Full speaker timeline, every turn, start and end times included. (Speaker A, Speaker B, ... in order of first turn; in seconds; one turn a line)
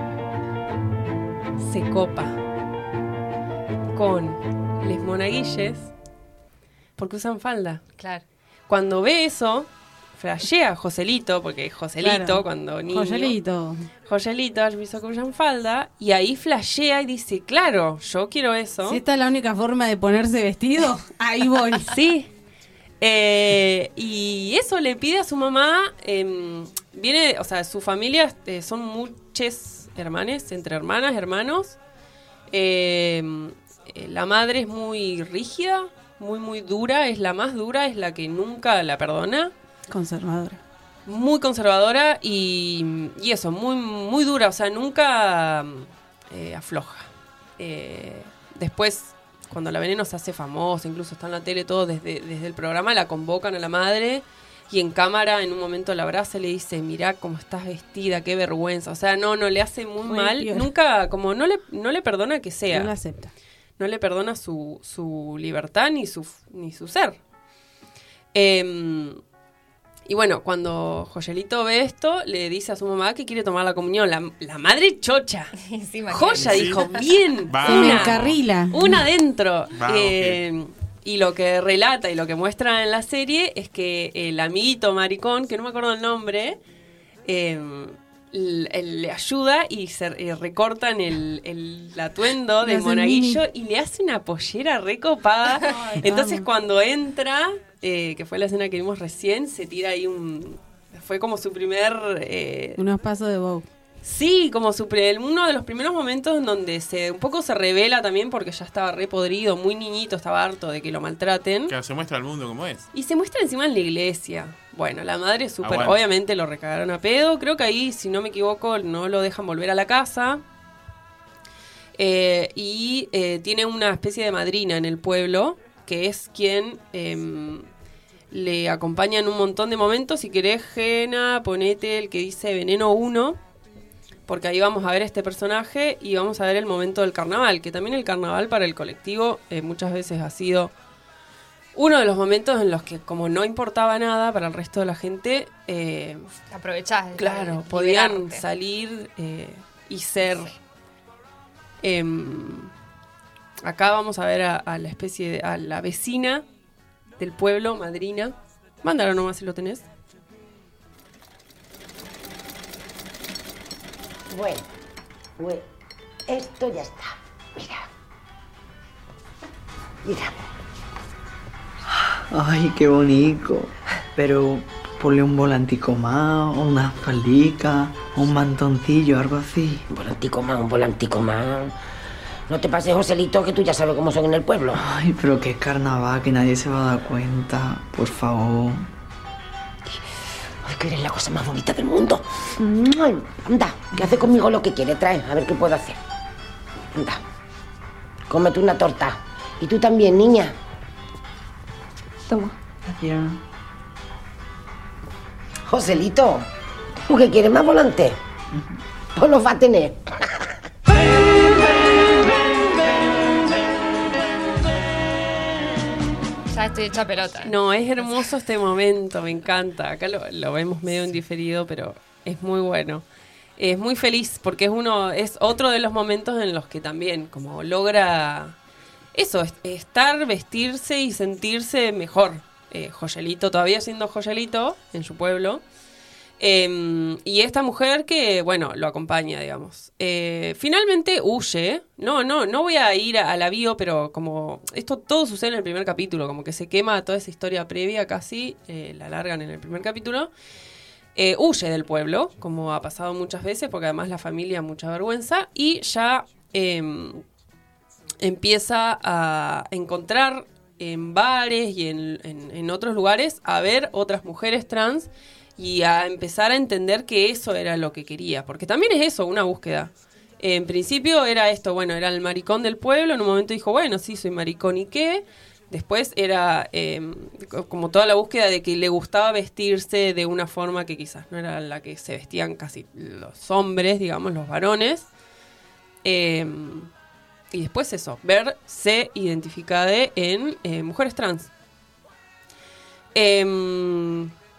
Speaker A: 1.6-2.4
Speaker A: 3.9-5.9
Speaker A: 7.0-7.8
Speaker B: 8.0-8.2
Speaker A: 8.7-13.4
Speaker C: 12.0-13.9
Speaker A: 14.1-19.0
Speaker C: 18.9-21.9
Speaker A: 21.9-22.3
Speaker A: 23.0-31.8
Speaker A: 32.5-39.5
Speaker C: 39.9-40.6
Speaker A: 41.0-62.9
Speaker C: 60.0-60.7
Speaker C: 62.7-63.3
Speaker A: 63.8-67.2
Speaker A: 68.3-69.2
Speaker A: 70.1-75.5
Speaker B: 75.6-77.1
Speaker A: 76.1-86.6
Speaker D: 76.4-76.8
Speaker D: 77.5-78.4
Speaker C: 77.6-79.0
Speaker D: 79.8-80.4
Speaker A: 87.2-102.8
Speaker C: 92.6-93.4
Speaker C: 95.9-96.5
Speaker C: 102.8-103.7
Speaker A: 104.0-111.7
Speaker D: 111.7-112.9
Speaker A: 112.9-120.4
Speaker D: 115.6-116.0
Speaker A: 122.0-127.7
Speaker A: 128.3-133.4
Speaker A: 134.3-140.7
Speaker A: 141.7-146.3
Speaker B: 146.5-148.4
Speaker A: 147.2-150.5
Speaker A: 151.8-152.7
Speaker A: 153.6-156.4
Speaker A: 157.2-159.8
Speaker E: 164.3-164.7
Speaker E: 165.4-165.6
Speaker E: 166.3-167.8
Speaker E: 170.0-170.3
Speaker F: 172.3-179.8
Speaker E: 179.9-181.7
Speaker E: 182.5-184.8
Speaker F: 184.8-188.9
Speaker E: 190.6-196.0
Speaker E: 196.9-197.2
Speaker E: 198.3-200.6
Speaker F: 202.8-203.4
Speaker E: 205.7-206.5
Speaker E: 207.1-208.2
Speaker E: 209.2-210.2
Speaker B: 216.5-217.5
Speaker A: 217.4-223.0
Speaker A: 223.6-228.6
Speaker A: 229.1-235.6
Speaker A: 236.4-250.3
Speaker A: 251.1-257.2
Speaker A: 258.2-285.1
Speaker A: 286.0-286.9
Speaker A: 287.5-291.5
Speaker A: 293.1-294.3